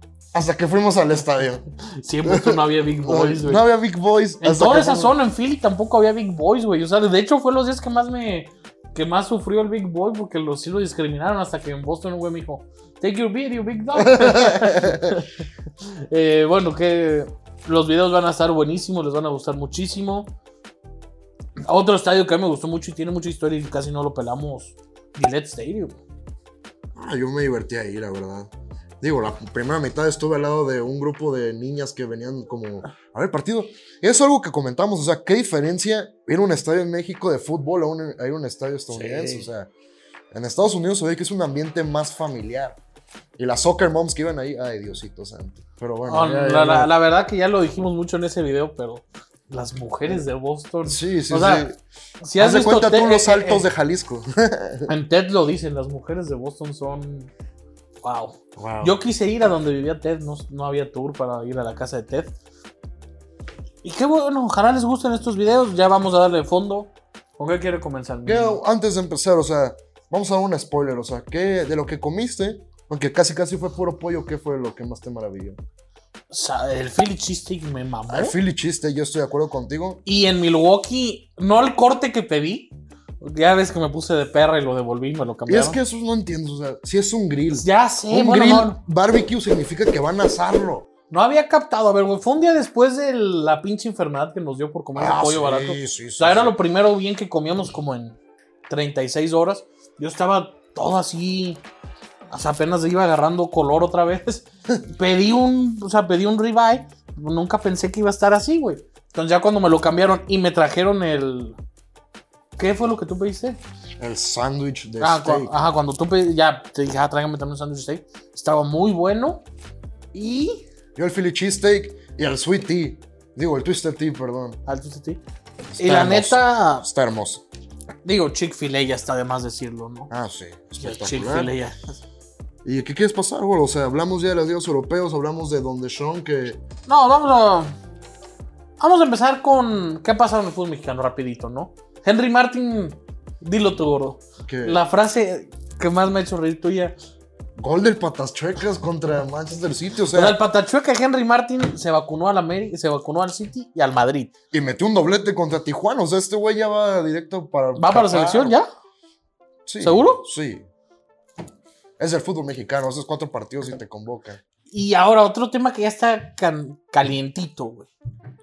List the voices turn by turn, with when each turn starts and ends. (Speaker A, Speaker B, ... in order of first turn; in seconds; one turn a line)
Speaker A: 0.3-1.7
Speaker B: 1.9-3.6
Speaker A: 2.2-5.2
Speaker B: 4.4-20.3
Speaker A: 13.9-15.2
Speaker B: 21.6-26.0
Speaker A: 26.9-39.7
Speaker B: 38.9-39.5
Speaker A: 40.3-42.8
Speaker A: 43.4-46.9
Speaker B: 46.0-51.7
Speaker A: 50.8-51.8
Speaker B: 52.2-53.6
Speaker A: 52.4-54.9
Speaker B: 54.9-57.3
Speaker B: 58.0-62.3
Speaker A: 58.6-59.0
Speaker B: 63.8-68.6
Speaker A: 68.2-75.6
Speaker B: 76.3-78.3
Speaker A: 78.1-80.0
Speaker B: 80.0-85.8
Speaker A: 85.5-90.9
Speaker B: 87.5-88.8
Speaker B: 91.1-101.6
Speaker A: 95.0-96.5
Speaker B: 102.3-111.6
Speaker B: 112.6-113.6
Speaker A: 114.0-115.5
Speaker B: 115.0-119.4
Speaker B: 120.1-120.6
Speaker A: 121.0-124.6
Speaker B: 124.7-125.2
Speaker A: 125.8-127.4
Speaker B: 125.8-126.9
Speaker B: 128.0-130.1
Speaker A: 130.1-131.5
Speaker B: 130.8-132.0
Speaker A: 132.6-136.6
Speaker B: 136.9-137.7
Speaker B: 138.8-146.9
Speaker A: 144.4-144.8
Speaker A: 147.6-150.4
Speaker B: 150.1-154.3
Speaker A: 154.5-158.6
Speaker B: 157.8-158.7
Speaker A: 159.7-160.7
Speaker B: 159.8-160.2
Speaker A: 162.0-164.4
Speaker B: 164.7-167.9